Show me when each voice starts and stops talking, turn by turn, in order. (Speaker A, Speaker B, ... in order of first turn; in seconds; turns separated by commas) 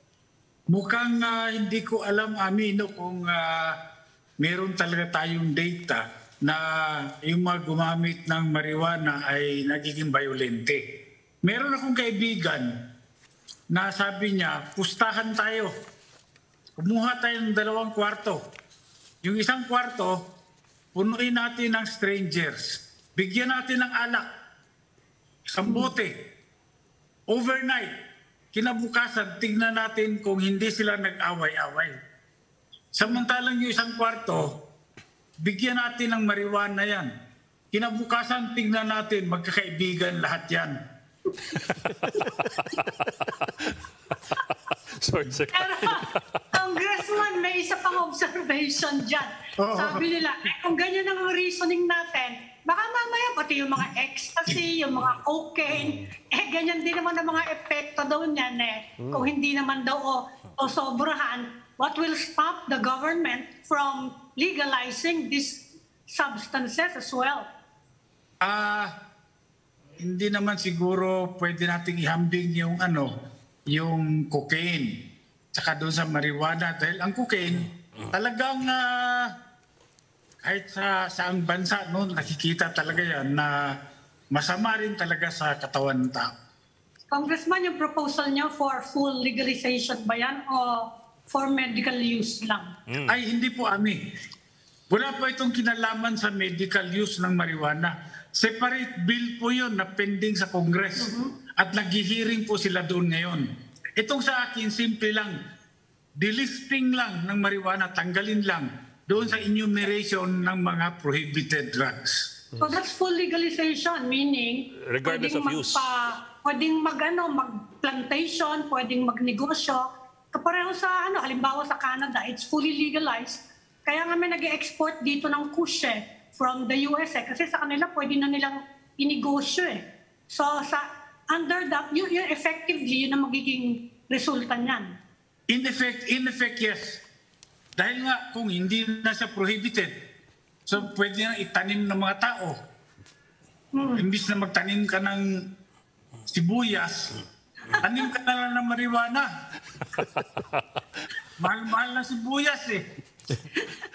Speaker A: 0.7-3.8, Speaker A: 4.4-10.8, Speaker A: 11.4-12.7, Speaker A: 13.7-15.7, Speaker A: 16.8-18.4, Speaker A: 19.2-20.2, Speaker A: 20.9-24.2, Speaker A: 25.5-26.1, Speaker B: 25.6-25.9, Speaker A: 27.3-27.9, Speaker A: 28.5-32.0, Speaker A: 32.9-34.6, Speaker A: 35.4-37.1, Speaker A: 37.7-40.8, Speaker C: 41.5-43.8, Speaker C: 44.9-46.4, Speaker B: 45.5-67.5, Speaker A: 49.6-50.0, Speaker A: 68.4-68.9, Speaker A: 70.0-73.1, Speaker A: 73.7-74.9, Speaker A: 75.5-79.3, Speaker A: 80.4-83.5, Speaker A: 84.3-86.3, Speaker B: 87.1-92.7, Speaker A: 93.0-94.0, Speaker A: 94.9-103.5, Speaker B: 101.0-101.3, Speaker A: 104.0-105.3, Speaker A: 106.2-112.3, Speaker B: 112.6-134.9, Speaker C: 114.8-115.9, Speaker A: 135.5-137.0, Speaker A: 137.8-139.9, Speaker A: 140.7-142.6, Speaker B: 143.7-144.1, Speaker A: 143.9-145.3, Speaker A: 146.3-149.3, Speaker A: 151.4-152.8, Speaker B: 153.5-153.8